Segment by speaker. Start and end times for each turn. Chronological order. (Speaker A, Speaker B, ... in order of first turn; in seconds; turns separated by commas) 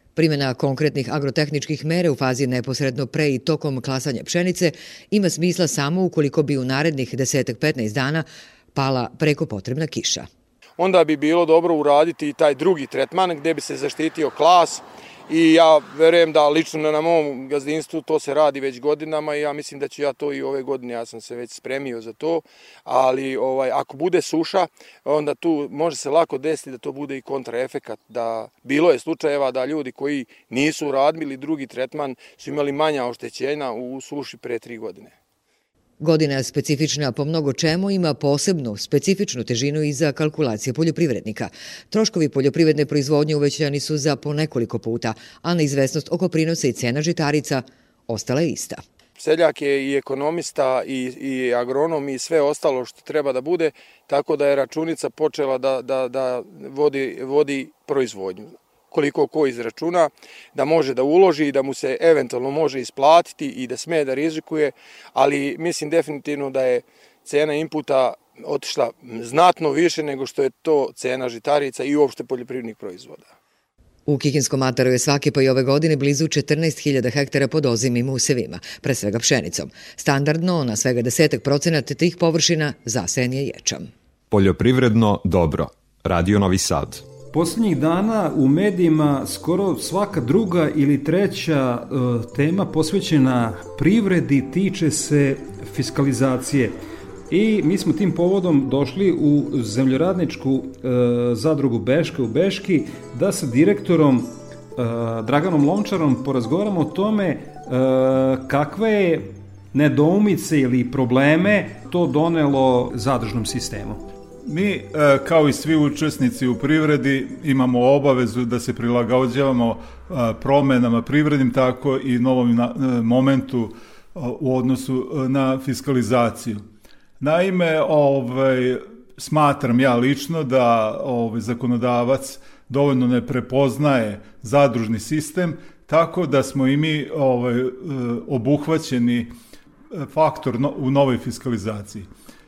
Speaker A: 0.2-10.3, Speaker B: 10.8-35.1, Speaker A: 36.0-48.8, Speaker B: 49.2-73.3, Speaker A: 74.1-83.9, Speaker C: 84.3-87.0, Speaker D: 87.3-96.8, Speaker D: 97.3-114.0, Speaker E: 114.5-126.6, Speaker E: 127.2-139.3, Speaker E: 139.9-142.1